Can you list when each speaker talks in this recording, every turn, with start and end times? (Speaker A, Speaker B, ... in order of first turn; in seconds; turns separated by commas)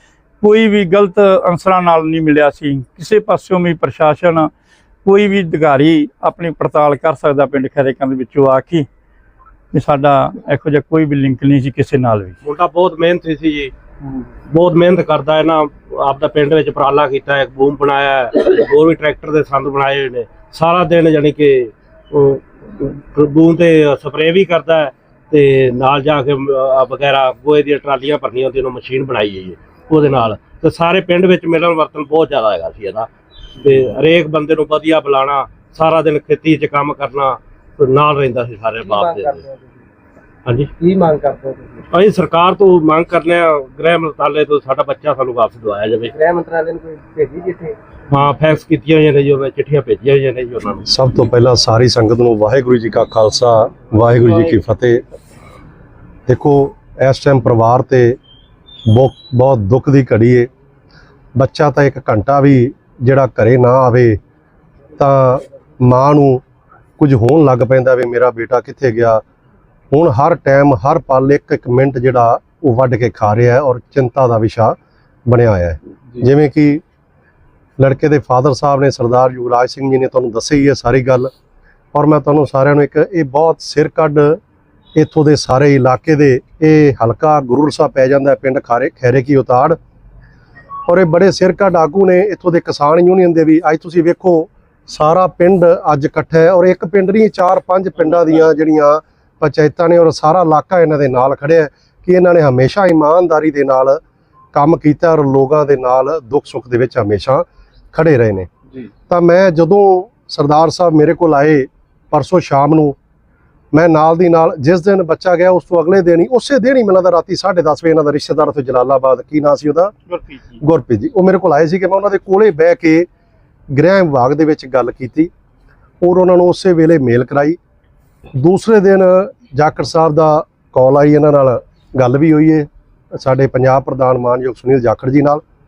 Speaker A: 0.4-4.5, Speaker A: 5.0-8.9, Speaker A: 9.7-12.4, Speaker B: 12.4-13.7, Speaker B: 14.5-33.1, Speaker B: 33.6-39.4, Speaker C: 38.8-39.8, Speaker B: 40.5-40.7, Speaker C: 40.8-41.8, Speaker B: 41.9-46.1, Speaker C: 46.1-47.8, Speaker B: 48.1-50.9, Speaker D: 50.9-55.0, Speaker D: 56.3-58.2, Speaker D: 58.9-60.5, Speaker D: 61.4-64.2, Speaker D: 65.0-66.4, Speaker D: 67.0-69.2, Speaker D: 69.9-76.8, Speaker D: 77.8-81.3, Speaker D: 81.9-84.4, Speaker D: 84.9-89.8, Speaker D: 90.9-104.0, Speaker D: 104.5-108.5, Speaker D: 109.1-113.0, Speaker D: 113.7-119.9, Speaker A: 120.1-120.6, Speaker D: 120.6-123.1, Speaker D: 123.7-125.3, Speaker D: 126.0-127.6, Speaker D: 128.3-135.4